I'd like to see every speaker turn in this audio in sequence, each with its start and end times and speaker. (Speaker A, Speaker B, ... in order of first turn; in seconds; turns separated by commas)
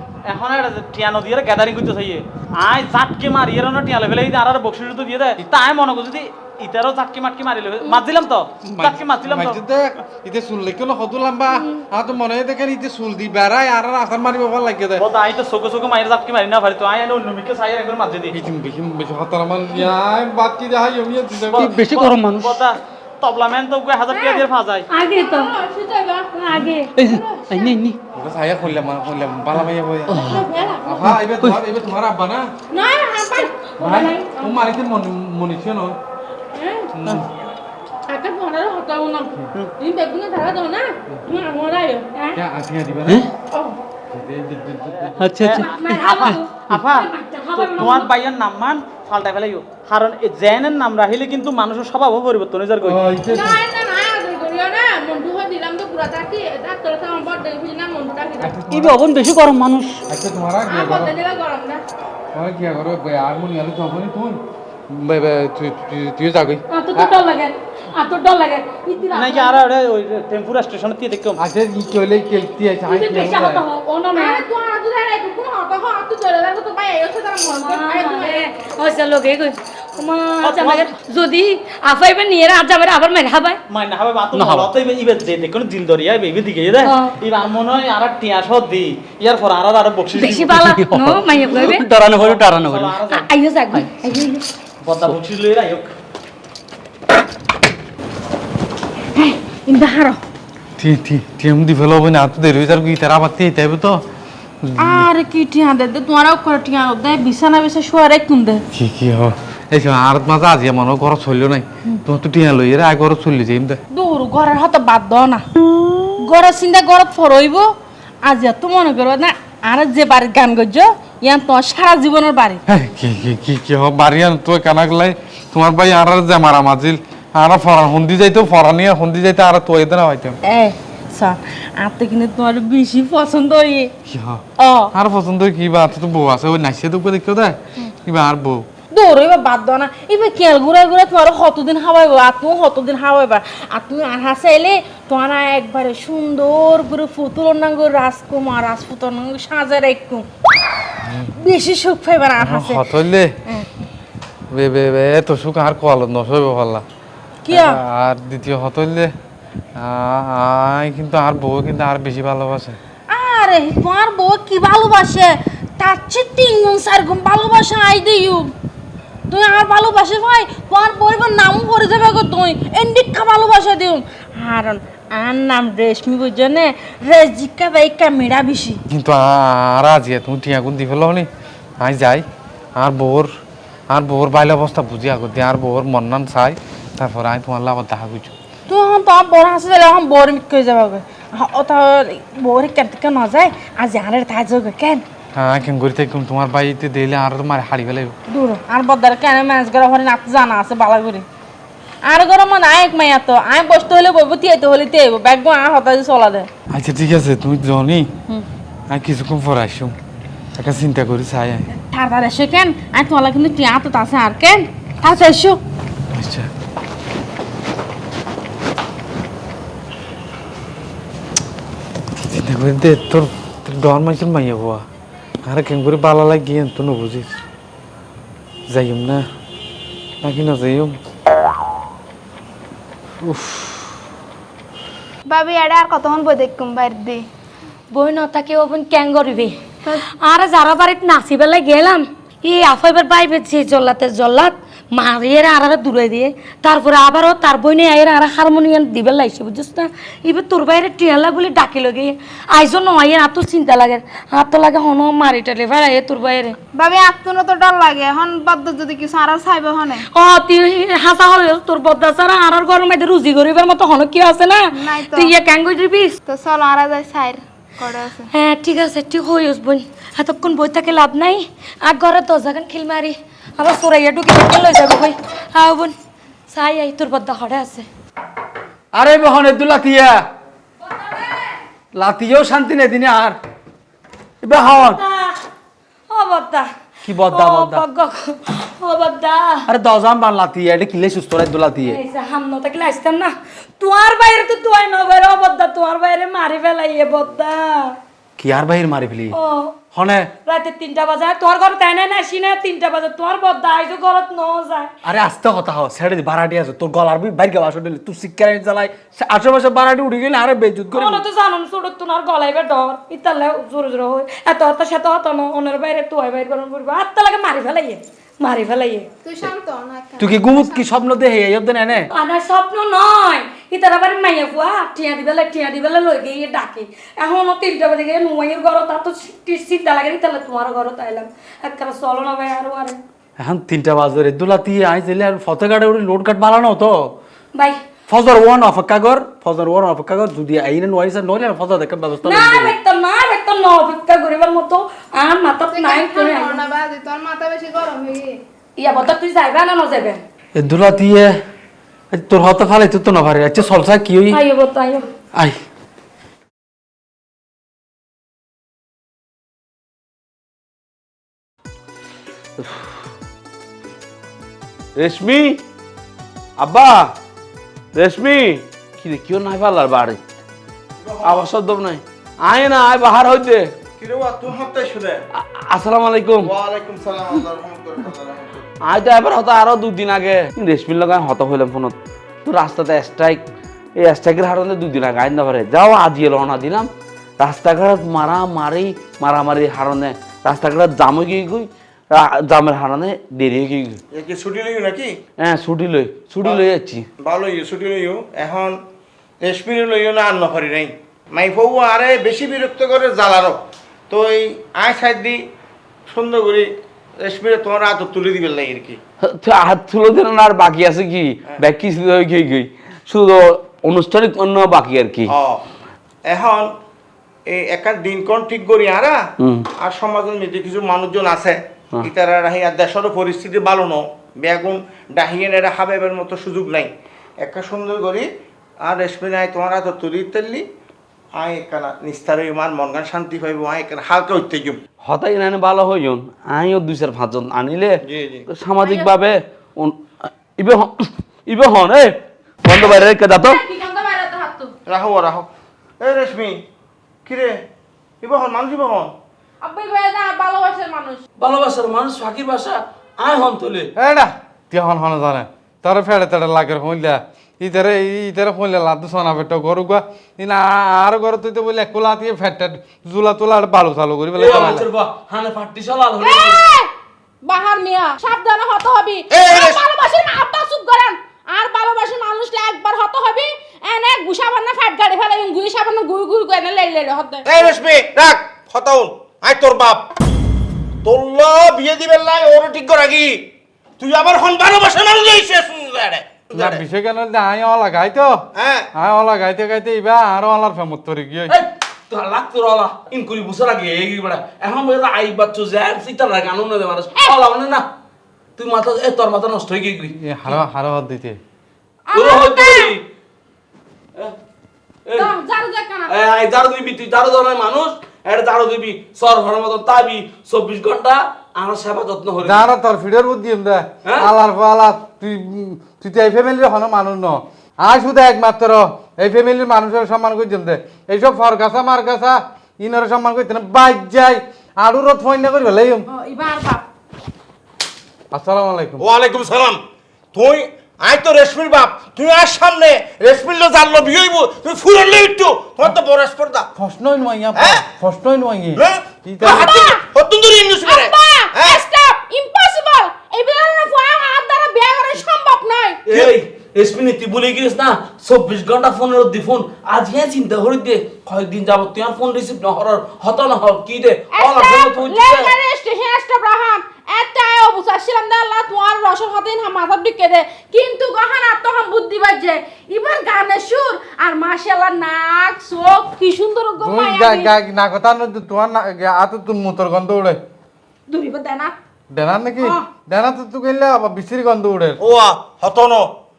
Speaker A: 0.3-9.6, Speaker B: 8.6-15.0, Speaker A: 15.0-18.4, Speaker B: 18.3-21.8, Speaker C: 21.6-22.6, Speaker A: 21.6-24.9, Speaker D: 24.1-24.4, Speaker E: 24.9-25.6, Speaker D: 25.1-27.8, Speaker E: 26.4-26.9, Speaker C: 26.6-28.0, Speaker B: 28.1-30.3, Speaker C: 30.1-30.5, Speaker D: 30.2-31.0, Speaker B: 30.9-32.5, Speaker C: 31.0-31.6, Speaker D: 32.7-34.5, Speaker B: 33.8-36.0, Speaker D: 36.5-36.9, Speaker B: 36.9-37.3, Speaker D: 38.1-42.1, Speaker B: 42.4-43.2, Speaker D: 43.5-43.8, Speaker B: 44.1-45.2, Speaker C: 45.2-46.6, Speaker A: 45.3-53.0, Speaker E: 45.5-48.1, Speaker B: 52.8-53.6, Speaker D: 53.3-58.5, Speaker B: 58.4-59.0, Speaker C: 58.7-60.0, Speaker B: 60.1-61.1, Speaker D: 60.7-61.8, Speaker B: 62.3-67.2, Speaker E: 66.7-69.5, Speaker D: 69.0-69.4, Speaker A: 69.1-71.4, Speaker B: 71.4-73.6, Speaker E: 72.9-74.4, Speaker D: 74.1-78.5, Speaker E: 77.6-83.6, Speaker A: 80.4-80.9, Speaker A: 83.7-90.6, Speaker C: 84.3-84.7, Speaker E: 86.8-87.2, Speaker E: 90.2-91.9, Speaker C: 90.4-93.0, Speaker A: 92.1-93.3, Speaker E: 93.1-94.1, Speaker C: 93.7-94.3, Speaker A: 94.8-95.9, Speaker F: 99.2-100.2, Speaker B: 100.8-104.0, Speaker B: 104.6-105.1, Speaker F: 104.8-108.6, Speaker B: 108.7-113.8, Speaker F: 113.9-115.4, Speaker F: 116.2-122.6, Speaker B: 122.7-130.4, Speaker F: 130.4-133.9, Speaker B: 134.1-138.7, Speaker F: 134.6-134.9, Speaker F: 138.9-150.3, Speaker F: 151.4-152.8, Speaker B: 152.4-153.3, Speaker B: 154.5-156.8, Speaker F: 157.4-157.8, Speaker B: 157.5-159.1, Speaker B: 159.8-162.8, Speaker F: 163.1-168.5, Speaker F: 169.3-178.8, Speaker B: 178.9-181.3, Speaker B: 181.8-182.3, Speaker B: 182.8-183.3, Speaker B: 183.9-188.3, Speaker F: 188.7-195.0, Speaker B: 195.4-198.2, Speaker F: 198.3-201.2, Speaker F: 202.1-206.5, Speaker B: 206.7-208.1, Speaker B: 208.9-210.0, Speaker B: 210.6-211.7, Speaker F: 211.7-215.6, Speaker B: 216.1-216.5, Speaker B: 222.2-224.8, Speaker B: 225.4-227.4, Speaker B: 228.7-229.2, Speaker B: 230.2-231.0, Speaker B: 233.3-233.7, Speaker G: 235.3-237.2, Speaker E: 237.9-256.6, Speaker G: 256.8-260.1, Speaker E: 260.1-266.1, Speaker G: 264.8-265.3, Speaker G: 266.3-268.3, Speaker E: 268.3-275.9, Speaker E: 276.5-277.9, Speaker C: 278.9-280.2, Speaker C: 281.9-283.4, Speaker C: 284.4-285.0, Speaker E: 284.6-285.4, Speaker E: 286.1-286.7, Speaker C: 287.0-287.8, Speaker E: 287.3-289.7, Speaker C: 289.7-292.0, Speaker E: 291.9-298.0, Speaker C: 298.4-299.4, Speaker E: 299.3-299.8, Speaker C: 299.9-300.3, Speaker E: 300.5-304.9, Speaker C: 305.1-311.2, Speaker E: 310.9-319.1, Speaker G: 319.2-320.9, Speaker C: 320.2-322.1, Speaker E: 322.1-333.0, Speaker C: 333.4-337.1, Speaker E: 337.6-337.8, Speaker C: 338.1-342.7, Speaker E: 342.2-346.6, Speaker G: 345.7-348.4, Speaker E: 348.8-350.2, Speaker C: 350.6-351.4, Speaker C: 352.1-354.4, Speaker E: 354.3-355.1, Speaker H: 362.6-362.9, Speaker H: 365.0-365.6, Speaker H: 366.6-367.1, Speaker H: 367.9-370.2, Speaker I: 371.0-371.5, Speaker H: 371.2-373.7, Speaker I: 374.0-375.2, Speaker H: 375.4-376.5, Speaker I: 376.4-378.7, Speaker H: 378.8-383.4, Speaker H: 384.0-386.9, Speaker H: 387.4-394.0, Speaker I: 394.1-395.2, Speaker H: 395.4-397.1, Speaker I: 397.2-398.8, Speaker I: 399.4-403.6, Speaker I: 404.1-405.4, Speaker I: 406.1-406.7, Speaker I: 407.2-409.0, Speaker H: 409.2-415.3, Speaker I: 415.3-415.6, Speaker I: 416.3-416.7, Speaker I: 417.5-419.2, Speaker H: 419.4-419.7, Speaker I: 419.8-426.9, Speaker I: 427.4-428.3, Speaker I: 428.8-430.6, Speaker I: 431.4-434.8, Speaker H: 435.0-443.6, Speaker I: 438.1-438.5, Speaker D: 438.8-439.1, Speaker D: 442.7-444.7, Speaker I: 444.9-445.5, Speaker I: 446.0-446.6, Speaker I: 447.2-447.6, Speaker I: 448.2-449.1, Speaker D: 449.6-451.2, Speaker H: 451.4-453.9, Speaker B: 454.0-464.9, Speaker H: 464.4-466.6, Speaker D: 466.2-466.9, Speaker D: 467.4-477.7, Speaker I: 469.3-469.8, Speaker I: 477.5-480.0, Speaker I: 481.0-483.4, Speaker I: 484.0-486.8, Speaker B: 486.5-488.4, Speaker I: 488.6-488.9, Speaker B: 488.9-491.6, Speaker H: 491.5-497.9, Speaker H: 498.6-500.1, Speaker B: 500.2-501.4, Speaker D: 502.1-502.9, Speaker H: 502.1-503.0, Speaker H: 505.1-505.3, Speaker D: 505.1-506.1, Speaker H: 506.1-512.7, Speaker B: 512.4-526.1, Speaker H: 514.0-514.3, Speaker D: 526.1-526.8, Speaker B: 528.3-529.0, Speaker I: 529.0-529.8, Speaker I: 530.3-536.7, Speaker B: 536.8-539.7, Speaker I: 537.6-537.8, Speaker I: 538.8-541.8, Speaker D: 539.4-540.0, Speaker D: 540.8-546.0, Speaker H: 546.1-555.5, Speaker D: 554.4-567.5, Speaker B: 566.8-570.4, Speaker D: 571.1-571.8, Speaker B: 572.1-575.0, Speaker I: 575.0-576.1